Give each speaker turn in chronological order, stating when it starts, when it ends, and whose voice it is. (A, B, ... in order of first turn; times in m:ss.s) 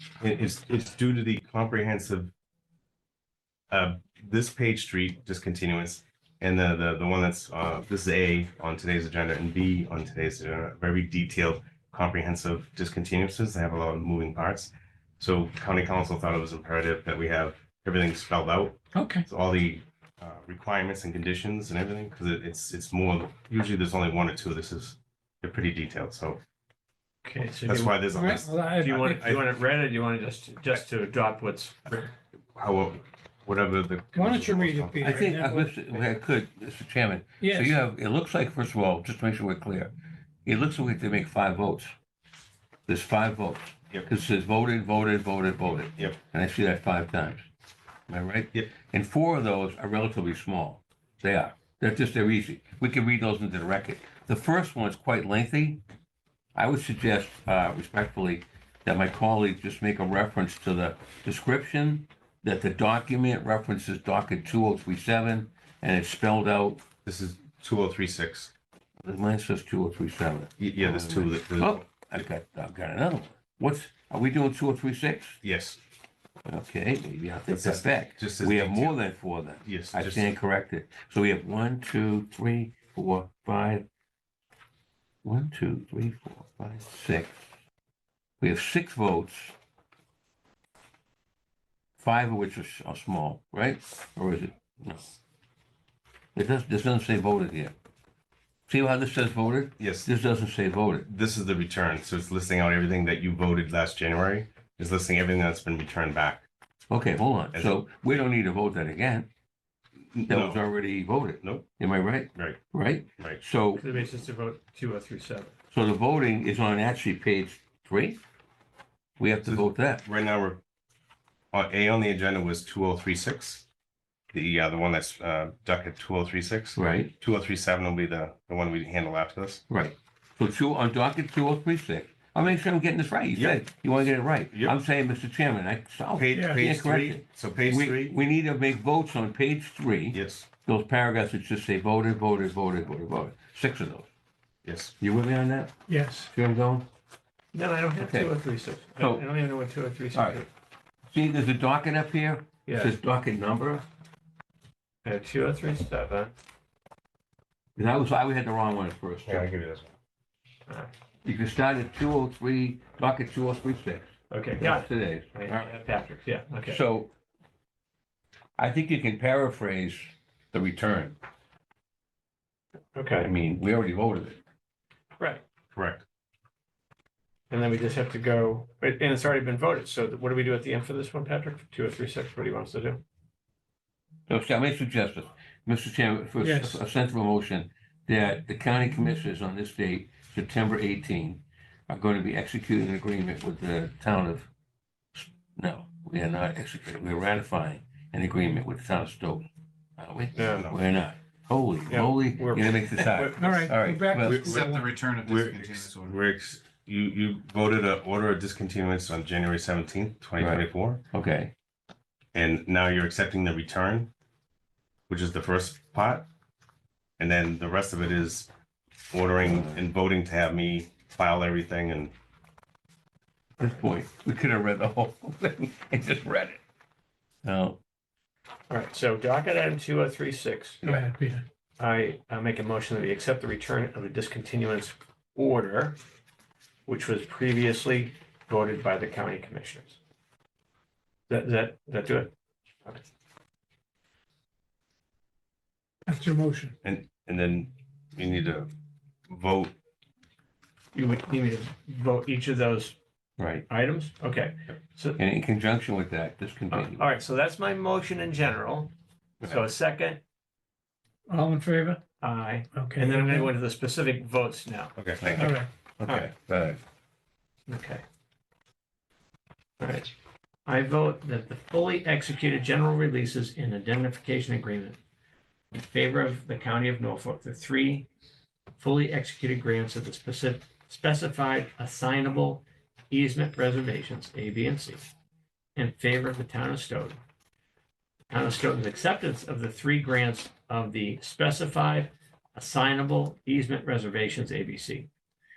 0:00.2-0:02.3 A
0:03.7-0:26.4 A
0:18.9-0:19.2 B
0:27.2-0:27.9 C
0:27.6-0:29.4 A
0:28.1-0:29.3 B
0:28.8-0:32.1 C
0:32.5-0:35.3 A
0:34.1-0:35.7 B
0:35.0-0:39.9 D
0:37.4-0:37.8 B
0:40.4-0:41.9 D
0:42.9-0:47.4 D
0:48.1-0:55.8 D
0:56.5-1:06.8 D
1:07.0-1:08.5 A
1:09.0-1:15.4 D
1:10.6-1:12.3 A
1:15.4-1:15.8 A
1:16.4-1:23.8 D
1:17.5-1:19.0 A
1:19.6-1:20.3 A
1:25.2-1:27.4 D
1:28.4-1:29.6 D
1:32.0-1:35.1 D
1:36.3-1:37.7 D
1:38.7-1:41.1 D
1:39.8-1:40.1 A
1:41.0-1:46.4 A
1:46.9-1:49.3 D
1:50.1-1:50.6 A
1:50.3-1:53.9 D
1:51.4-1:51.6 A
1:53.8-1:55.5 C
1:55.7-1:58.2 D
1:59.2-2:00.0 D
1:59.4-2:00.6 A
2:01.5-2:03.6 A
2:04.3-2:09.6 A
2:06.7-2:07.1 D
2:09.7-2:24.1 D
2:13.3-2:13.6 A
2:14.5-2:14.8 A
2:16.1-2:18.2 A
2:16.3-2:16.6 B
2:20.1-2:20.5 A
2:24.6-2:24.9 A
2:25.0-2:26.9 D
2:25.9-2:26.3 B
2:27.5-2:30.5 C
2:28.0-2:28.3 D
2:29.0-2:29.3 D
2:30.1-2:30.4 D
2:31.1-2:33.8 D
2:32.6-2:32.9 C
2:35.0-2:36.3 C
2:37.8-2:39.5 D
2:39.3-2:39.9 A
2:41.2-2:45.8 D
2:44.3-2:46.8 C
2:46.6-2:47.1 D
2:48.6-2:51.2 D
2:52.9-2:53.3 C
2:53.2-2:54.4 D
2:55.7-2:56.0 A
2:57.5-3:03.0 C
3:04.3-3:14.5 D
3:06.4-3:06.8 B
3:15.1-3:24.5 D
3:20.3-3:20.7 C
3:20.4-3:20.8 A
3:21.9-3:23.7 C
3:23.4-3:25.0 B
3:24.2-3:24.7 A
3:24.2-3:26.2 E
3:25.2-3:31.0 A
3:30.4-3:31.5 D
3:32.3-3:34.1 A
3:35.1-3:36.3 A
3:37.2-3:38.5 A
3:39.1-3:42.1 A
3:39.4-3:39.9 D
3:43.6-3:46.6 D
3:47.4-3:47.8 D
3:48.7-3:50.8 C
3:50.8-3:51.4 B
3:51.8-3:56.0 C
3:56.9-4:00.0 C
4:01.3-4:02.3 C
4:06.1-4:06.7 B
4:06.8-4:08.7 A
4:09.3-4:09.7 A
4:10.9-4:13.0 C
4:13.4-4:13.6 D
4:13.7-4:15.2 C
4:15.2-4:17.1 D
4:16.7-4:20.2 C
4:21.3-4:22.0 B
4:22.2-4:24.9 C
4:22.7-4:23.5 B
4:25.0-4:25.5 A
4:25.2-4:26.8 D
4:25.4-4:25.7 B
4:26.0-4:26.3 C
4:27.7-4:28.0 C
4:29.8-4:30.1 C
4:30.6-4:35.0 C
4:35.7-4:38.1 C
4:38.8-4:45.1 C
4:45.8-4:47.2 C
4:48.3-4:55.1 C